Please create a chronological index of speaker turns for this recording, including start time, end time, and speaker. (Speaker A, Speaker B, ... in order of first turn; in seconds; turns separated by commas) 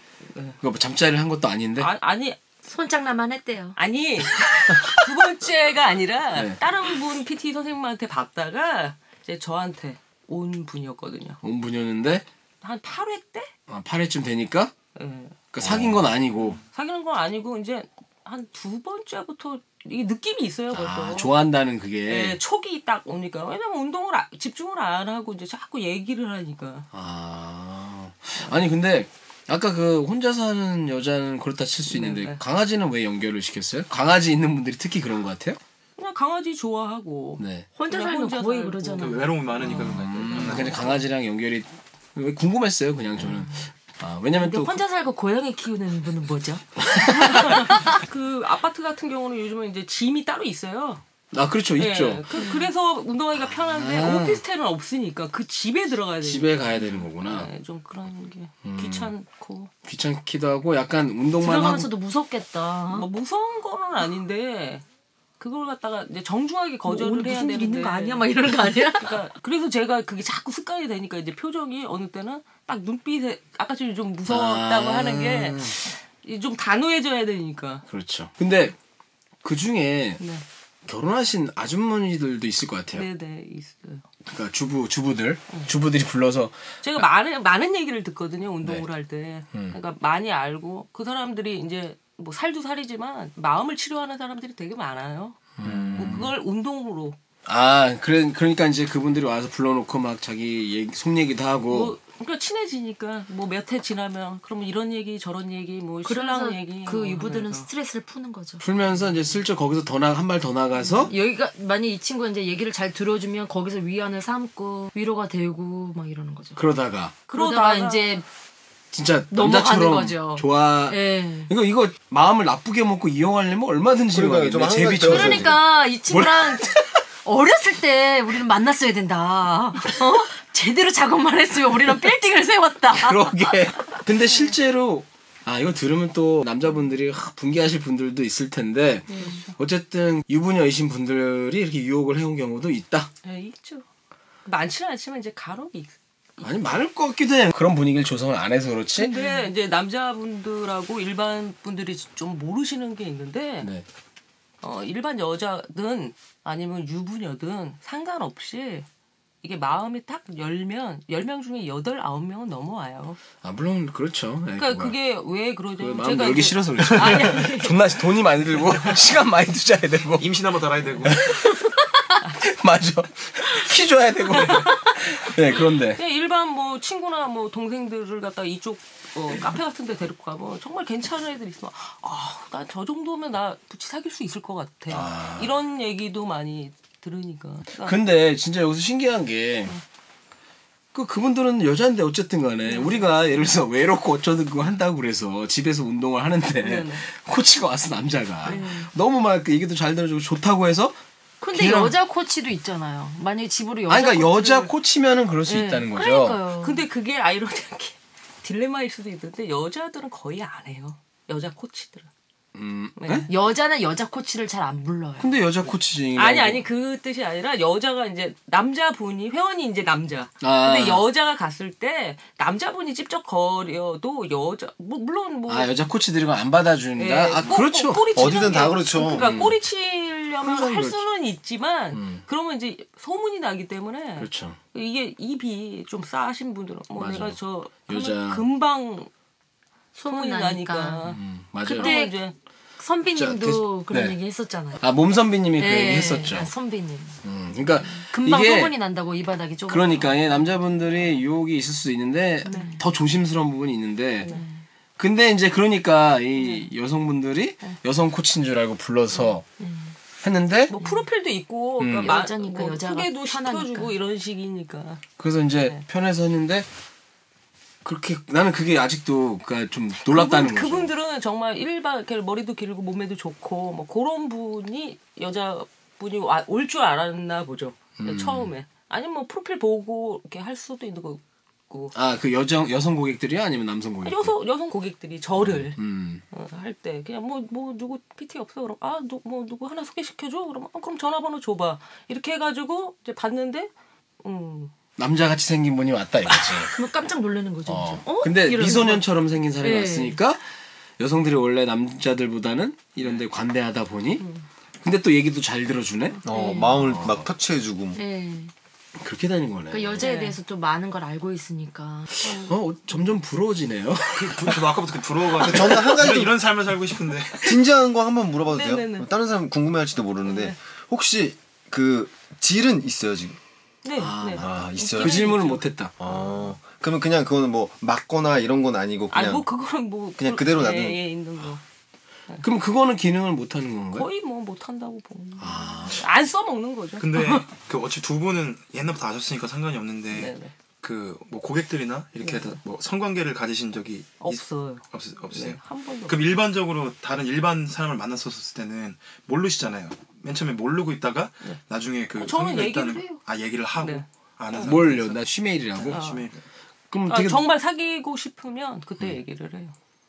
Speaker A: 0.3-0.6, Speaker B: 0.6-1.9, Speaker A: 1.8-2.4, Speaker C: 2.6-3.8, Speaker A: 3.8-11.4, Speaker B: 6.3-6.6, Speaker B: 11.4-12.2, Speaker A: 12.6-13.5, Speaker B: 13.7-14.7, Speaker A: 14.9-15.6, Speaker B: 15.5-16.6, Speaker A: 16.7-21.4, Speaker B: 20.7-22.4, Speaker A: 22.1-26.9, Speaker B: 26.9-35.6, Speaker A: 31.9-32.4, Speaker A: 36.0-40.9, Speaker B: 37.4-37.7, Speaker C: 37.8-39.9, Speaker D: 39.0-40.9, Speaker B: 39.8-44.8, Speaker C: 44.4-47.9, Speaker B: 46.8-47.6, Speaker A: 47.1-51.0, Speaker B: 51.3-52.2, Speaker A: 51.8-59.7, Speaker C: 52.4-52.6, Speaker B: 53.4-54.4, Speaker B: 56.2-57.5, Speaker B: 58.6-59.1, Speaker B: 59.8-61.9, Speaker C: 61.4-63.1, Speaker A: 62.9-64.8, Speaker A: 65.4-77.8, Speaker C: 66.8-69.1, Speaker B: 74.2-75.8, Speaker B: 77.9-78.7, Speaker B: 79.4-80.2, Speaker B: 80.8-83.1, Speaker A: 82.9-84.0, Speaker B: 84.2-87.0, Speaker A: 86.8-97.2, Speaker B: 95.6-96.3, Speaker E: 95.6-96.2, Speaker B: 97.4-102.0, Speaker A: 101.7-107.7, Speaker C: 106.0-108.6, Speaker B: 108.6-111.1, Speaker C: 111.0-116.6, Speaker B: 116.5-117.2, Speaker A: 117.3-118.2, Speaker C: 117.3-118.2, Speaker B: 118.9-126.9, Speaker C: 119.3-121.5, Speaker E: 124.1-125.6, Speaker C: 125.0-133.6, Speaker B: 132.9-143.1, Speaker C: 139.1-139.4, Speaker A: 139.1-139.5, Speaker A: 143.2-143.8, Speaker A: 144.4-146.5, Speaker B: 146.4-149.1, Speaker A: 149.0-153.7, Speaker C: 149.1-149.5, Speaker B: 153.6-153.8, Speaker A: 154.6-158.9, Speaker A: 159.4-163.2, Speaker B: 163.4-164.9, Speaker A: 164.6-167.8, Speaker B: 165.8-170.3, Speaker D: 170.2-171.2, Speaker B: 171.0-171.8, Speaker B: 172.4-176.0, Speaker A: 174.3-188.0, Speaker B: 184.9-185.5, Speaker B: 187.8-189.7, Speaker B: 190.9-201.0, Speaker A: 192.7-193.0, Speaker A: 196.6-197.0, Speaker C: 198.4-198.9, Speaker C: 201.4-204.7, Speaker B: 201.5-201.9, Speaker B: 203.9-206.4, Speaker A: 205.5-205.8, Speaker C: 205.8-206.8, Speaker A: 206.6-212.1, Speaker B: 212.5-213.3, Speaker A: 213.0-213.3, Speaker C: 213.3-215.3, Speaker B: 215.2-216.7, Speaker A: 216.2-225.8, Speaker B: 220.4-221.0, Speaker B: 225.5-228.6, Speaker A: 227.0-239.1, Speaker E: 228.1-229.3, Speaker B: 229.1-229.6, Speaker B: 230.4-231.0, Speaker B: 231.9-232.2, Speaker B: 234.2-234.6, Speaker B: 236.9-238.4, Speaker C: 239.9-241.0, Speaker A: 240.1-242.3, Speaker B: 241.0-241.9, Speaker C: 241.7-242.2, Speaker C: 242.8-244.8, Speaker B: 243.1-244.2, Speaker B: 244.8-246.5, Speaker C: 245.6-247.2, Speaker B: 247.2-248.8, Speaker C: 247.8-250.3, Speaker B: 249.7-254.3, Speaker C: 252.4-252.8, Speaker C: 254.3-254.6, Speaker B: 255.0-259.4, Speaker C: 259.6-259.9, Speaker B: 260.2-260.7, Speaker A: 260.7-265.0, Speaker B: 261.8-262.1, Speaker C: 262.0-263.9, Speaker B: 265.2-266.7, Speaker B: 267.8-270.9, Speaker A: 270.0-281.9, Speaker B: 278.0-278.5, Speaker B: 281.9-284.3, Speaker A: 284.0-293.7, Speaker B: 285.4-286.2, Speaker A: 294.2-294.7, Speaker B: 295.0-296.7, Speaker C: 296.7-299.1, Speaker B: 297.7-300.4, Speaker C: 299.6-300.2, Speaker B: 301.0-304.2, Speaker B: 304.8-307.3, Speaker E: 306.2-308.0, Speaker C: 306.3-306.9, Speaker C: 307.9-308.5, Speaker B: 309.0-310.1, Speaker C: 309.7-312.2, Speaker A: 310.0-310.4, Speaker A: 312.2-312.5, Speaker B: 312.2-314.6, Speaker D: 314.1-317.6, Speaker E: 315.4-316.4, Speaker E: 317.4-323.4, Speaker A: 318.5-319.1, Speaker A: 320.2-320.6, Speaker A: 323.8-326.5, Speaker B: 323.9-325.9, Speaker E: 324.4-325.4, Speaker E: 326.0-329.5, Speaker A: 329.1-331.6, Speaker E: 330.2-331.0, Speaker B: 332.4-334.1, Speaker A: 333.9-337.4, Speaker B: 335.4-336.0, Speaker D: 337.0-355.2, Speaker A: 340.1-340.5, Speaker A: 342.2-342.6, Speaker A: 344.2-346.3, Speaker A: 352.1-353.2, Speaker A: 353.8-354.8, Speaker B: 354.6-356.0, Speaker D: 355.8-356.4, Speaker A: 355.9-356.3, Speaker B: 356.9-357.4, Speaker A: 357.1-359.7